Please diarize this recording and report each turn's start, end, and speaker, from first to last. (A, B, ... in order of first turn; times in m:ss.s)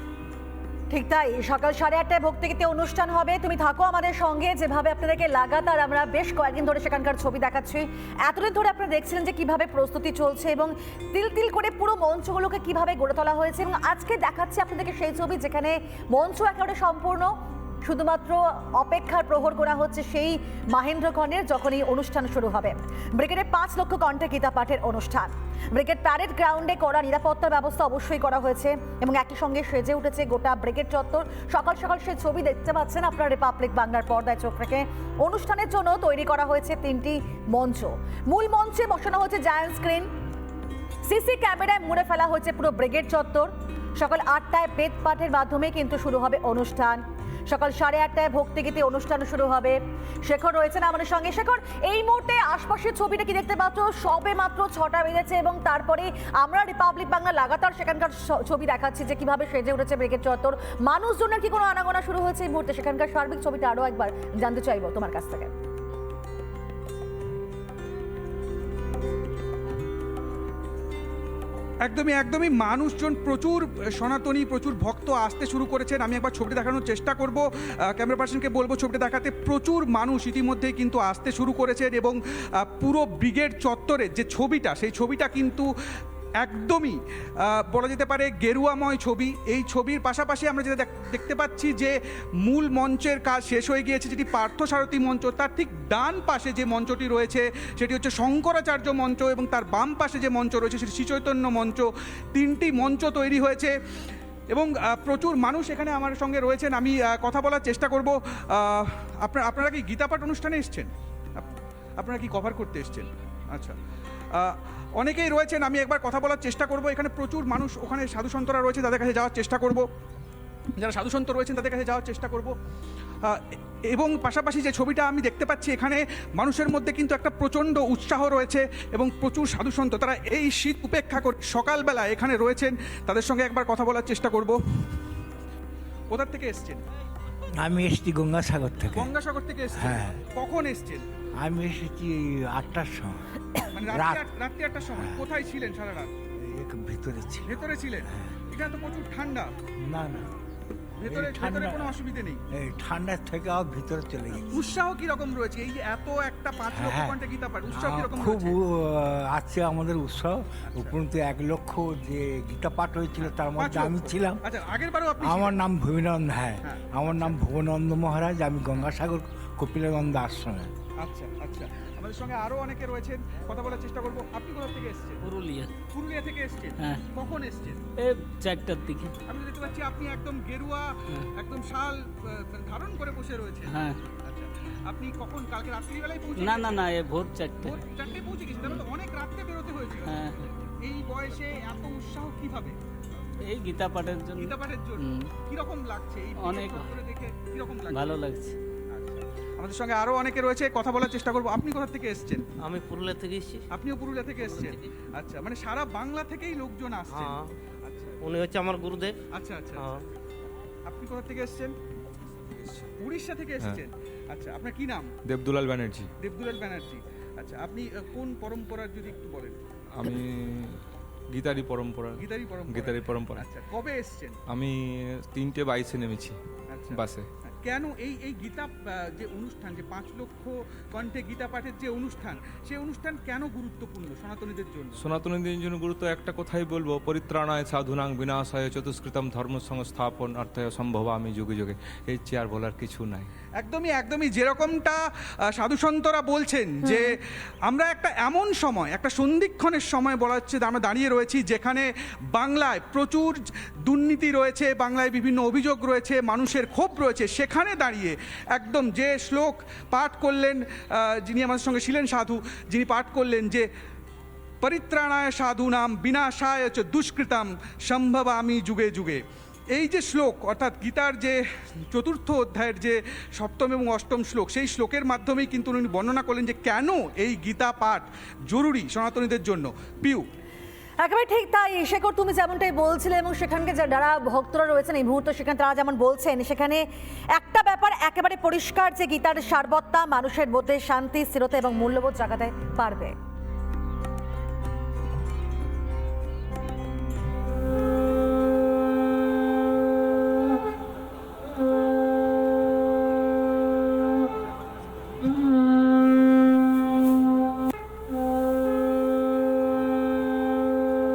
0:00.9-0:40.1 A
0:41.0-1:05.5 A
1:11.8-1:17.4 B
1:18.0-1:25.7 B
1:26.4-1:43.7 B
1:44.5-1:53.8 B
1:54.3-1:59.9 B
2:00.8-2:02.5 B
2:03.2-2:14.6 B
2:16.1-2:16.8 B
2:17.6-2:19.1 C
2:18.9-2:21.0 B
2:19.7-2:20.2 C
2:21.4-2:24.2 C
2:23.7-2:26.1 B
2:25.0-2:25.2 C
2:26.4-2:27.5 C
2:27.5-2:29.5 B
2:28.1-2:28.3 C
2:29.8-2:30.3 C
2:31.0-2:32.4 B
2:31.0-2:32.0 C
2:32.5-2:34.6 C
2:34.3-2:38.6 B
2:36.7-2:37.2 C
2:37.7-2:44.4 C
2:40.7-2:41.0 B
2:43.6-2:45.6 B
2:45.2-2:50.7 C
2:46.6-2:47.4 B
2:51.0-2:55.2 B
2:55.2-2:55.7 D
2:55.9-2:57.8 B
2:58.0-2:59.1 D
2:59.3-3:07.0 B
3:03.7-3:04.0 D
3:06.4-3:07.8 D
3:07.6-3:12.8 B
3:10.0-3:10.4 D
3:13.5-3:15.3 D
3:14.4-3:18.2 B
3:16.4-3:16.9 D
3:17.9-3:18.6 D
3:18.9-3:22.4 B
3:22.6-3:23.6 E
3:23.7-3:28.2 B
3:24.5-3:24.8 E
3:27.1-3:27.6 E
3:28.2-3:29.2 E
3:29.3-3:29.9 B
3:29.8-3:30.0 E
3:30.9-3:31.7 B
3:33.0-3:35.1 B
3:35.3-3:36.1 F
3:36.2-3:39.6 B
3:39.9-3:40.7 F
3:41.3-3:43.4 F
3:42.2-3:44.4 B
3:45.3-3:46.4 F
3:46.7-3:55.0 B
3:46.9-3:47.2 F
3:55.0-4:03.3 F
4:03.6-4:05.0 B
4:05.6-4:23.7 B
4:24.6-4:29.2 B
4:29.7-4:31.4 B
4:31.9-4:40.2 B
4:41.0-4:46.8 A
4:47.4-4:53.1 A